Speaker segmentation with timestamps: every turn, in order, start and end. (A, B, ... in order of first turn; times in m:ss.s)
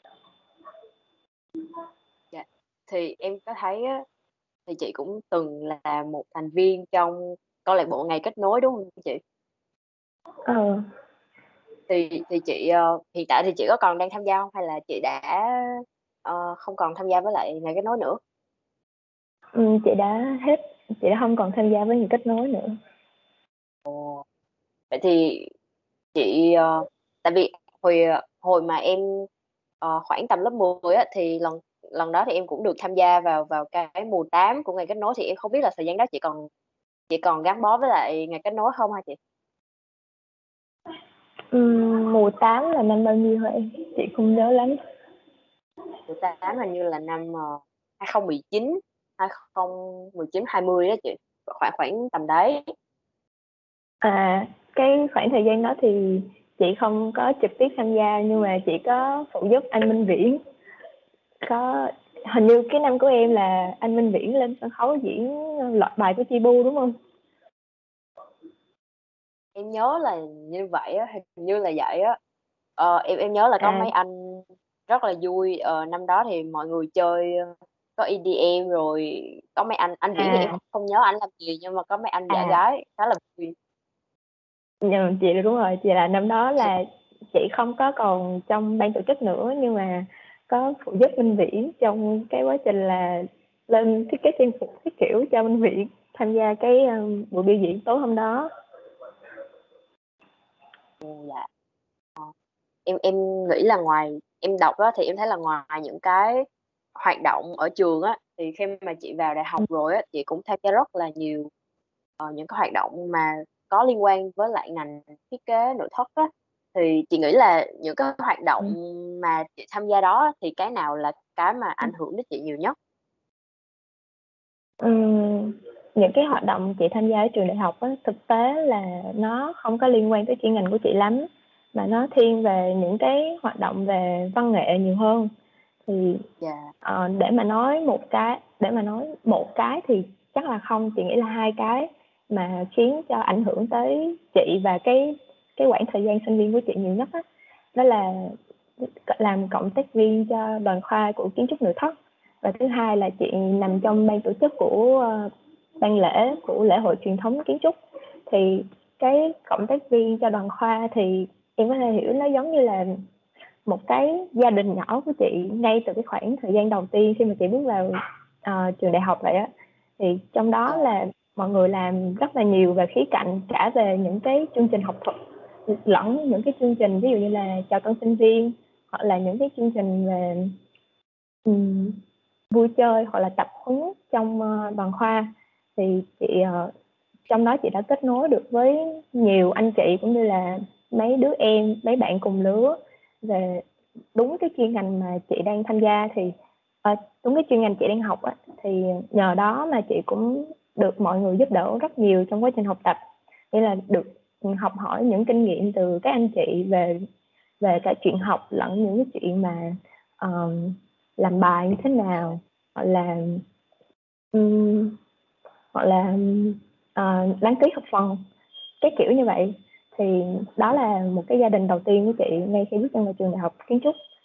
0:02.3-0:04.0 A
0:04.7-0:09.2 A
0:10.5-0:10.8 B
0:11.9-0:18.2 A
0:19.6-0:22.7 B
0:23.9-0:24.2 A
0:24.9-0:25.5 A
0:26.1-0:29.3 A
0:29.8-0:36.5 A
0:37.1-0:39.2 A
0:41.5-0:44.8 B
0:46.1-0:52.6 A
0:54.0-1:00.4 B
1:01.4-1:06.9 B
1:09.6-1:12.2 A
1:12.8-1:23.6 A
1:13.6-1:13.9 B
1:20.2-1:20.6 B
1:22.3-1:22.6 B
1:24.8-1:38.5 B
1:41.0-1:41.5 A
1:42.9-1:46.5 A
1:47.0-1:51.5 A
1:52.2-2:02.8 A
2:04.8-2:15.3 B
2:15.9-2:16.2 B
2:16.4-2:16.7 A
2:16.8-2:27.2 B
2:27.8-2:28.4 B
2:29.1-2:37.8 B
2:38.3-2:42.9 B
2:43.7-2:47.9 B
2:48.4-2:55.2 B
2:55.7-3:00.6 B
3:01.5-3:02.0 B
3:02.5-3:06.7 B
3:07.3-3:13.6 B
3:14.2-3:16.3 B
3:16.8-3:23.0 B
3:23.5-3:27.0 B
3:27.6-3:33.4 B
3:34.3-3:35.0 B
3:35.7-3:38.2 B
3:38.8-3:44.0 B